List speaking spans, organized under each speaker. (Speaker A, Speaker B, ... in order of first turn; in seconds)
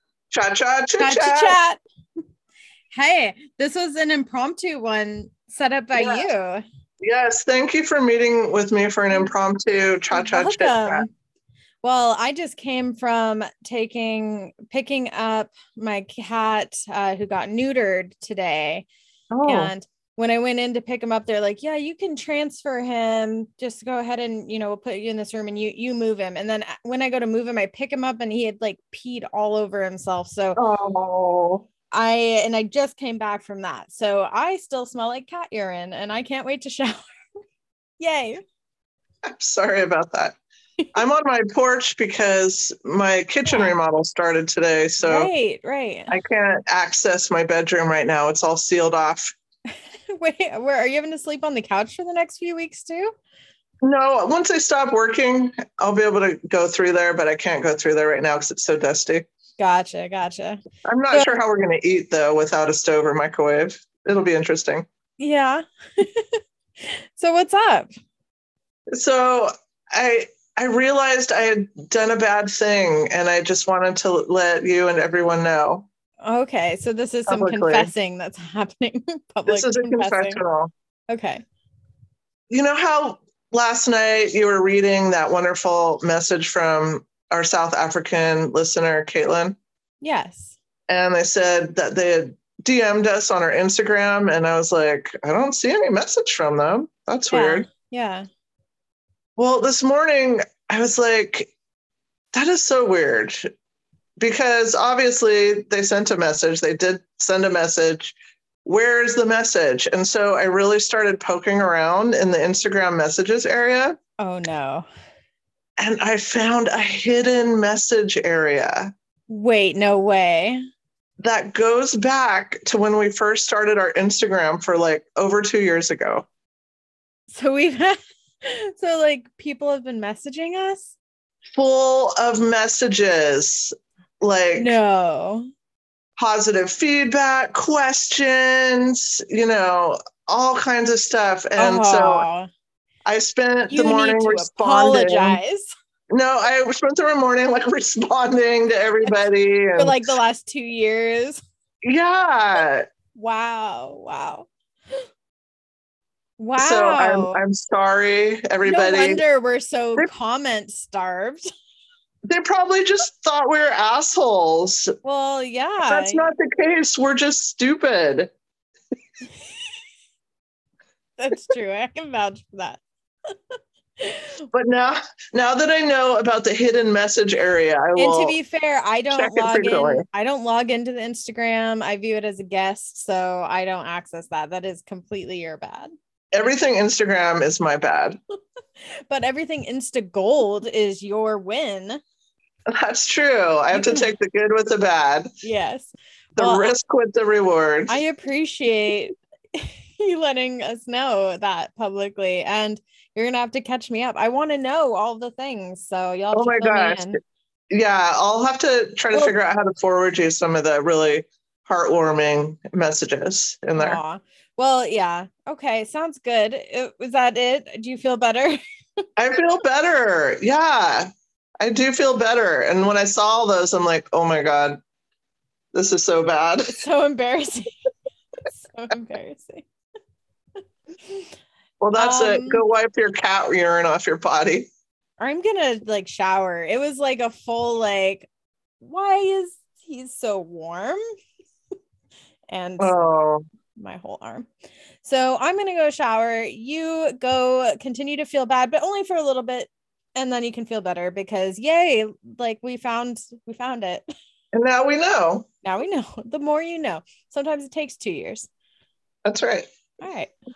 Speaker A: 0.3-1.6, 5.9-6.3, 7.0-11.1, 19.3-19.7, 30.6-31.7, 39.3-40.4, 40.9-45.3, 46.1-49.3, 53.8-59.3, 60.9-64.9, 68.9-75.9, 77.3-77.9, 79.5-80.7, 82.5-89.6, 90.9-97.7, 99.4-101.5, 102.3-103.5, 104.2-114.0, 115.8-118.9, 121.2-126.3, 131.5-134.8, 136.2-142.3, 143.1-145.4, 146.1-150.1, 151.8-152.9, 156.6-159.2, 162.3-164.9, 165.9-168.3, 174.5-178.4, 179.1-180.1, 186.3-188.2, 192.7-195.3, 196.4-198.0, 206.3-207.2, 207.7-214.0, 219.2-221.1, 221.6-224.8, 225.7-226.8, 231.8-234.7, 242.8-243.4, 254.5-255.5, 259.2-259.7
Speaker B: 1.0-1.8, 2.9-6.6, 10.1-11.1, 11.8-18.9, 19.4-30.6, 31.9-37.0, 38.0-38.4, 43.5-43.7, 45.0-46.1, 49.7-53.1, 59.6-61.4, 65.2-67.9, 76.2-80.4, 81.1-81.4, 90.0-90.6, 97.3-98.3, 114.2-114.9, 119.3-120.6, 127.3-130.9, 134.6-135.5, 141.6-142.5, 143.7-145.7, 149.8-151.4, 153.2-154.5, 156.4-157.4, 158.6-161.5, 165.0-166.3, 171.2-172.8, 174.0-174.4, 178.0-185.9, 189.1-192.0, 193.7-194.1, 195.4-196.7, 197.9-207.2, 213.8-218.6, 226.7-227.7, 228.5-229.7, 232.0-232.6, 235.2-238.3, 238.8-241.0, 242.5-243.0, 243.8-244.5, 245.0-254.1, 255.6-258.5, 260.0-260.3